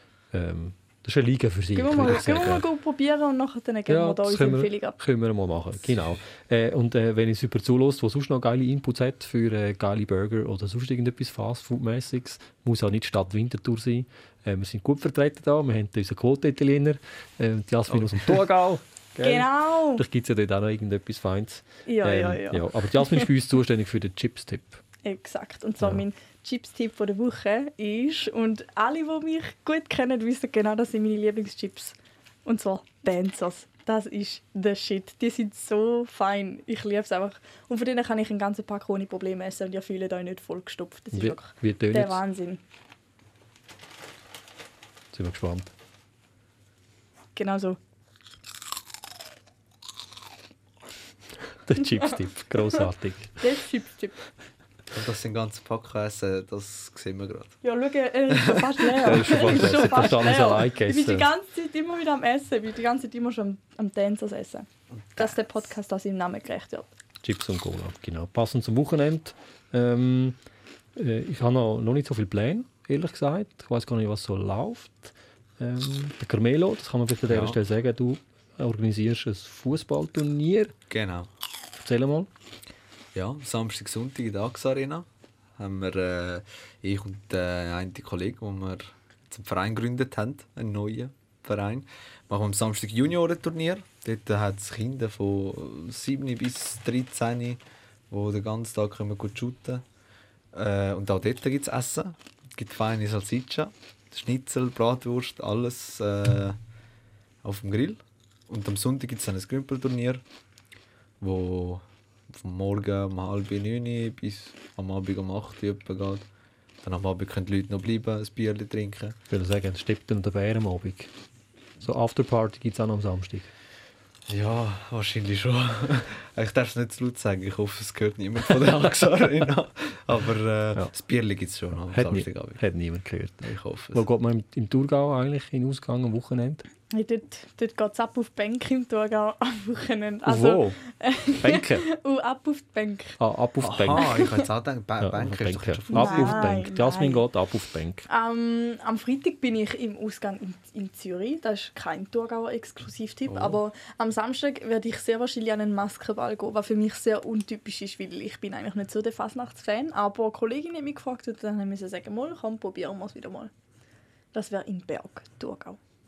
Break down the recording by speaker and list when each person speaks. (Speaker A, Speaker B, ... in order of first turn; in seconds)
Speaker A: 0.3-2.6, 3.9-24.8, 41.1-42.2, 45.1-45.7, 51.7-53.4, 59.0-61.3, 67.2-70.4, 71.0-80.7, 81.8-82.3, 119.3-121.1, 121.8-123.5, 131.9-136.7, 140.3-140.8, 141.4-141.9, 143.2-144.1, 145.0-148.1
Speaker B: 1.8-5.0, 19.2-20.0, 21.9-23.3, 25.0-42.6, 47.4-47.8, 53.4-54.2, 57.6-66.9, 136.9-143.2, 143.9-144.5, 145.9-147.2, 148.1-163.5, 164.3-165.8
Speaker C: 2.0-2.3, 17.9-18.4, 54.9-57.6, 58.3-60.1, 65.1-65.4, 77.3-77.6, 80.9-81.3, 83.2-99.8, 100.5-106.6, 107.4-110.2, 111.2-116.3, 116.8-119.2, 124.3-132.6, 133.4-134.1, 143.6-146.5, 153.3-153.6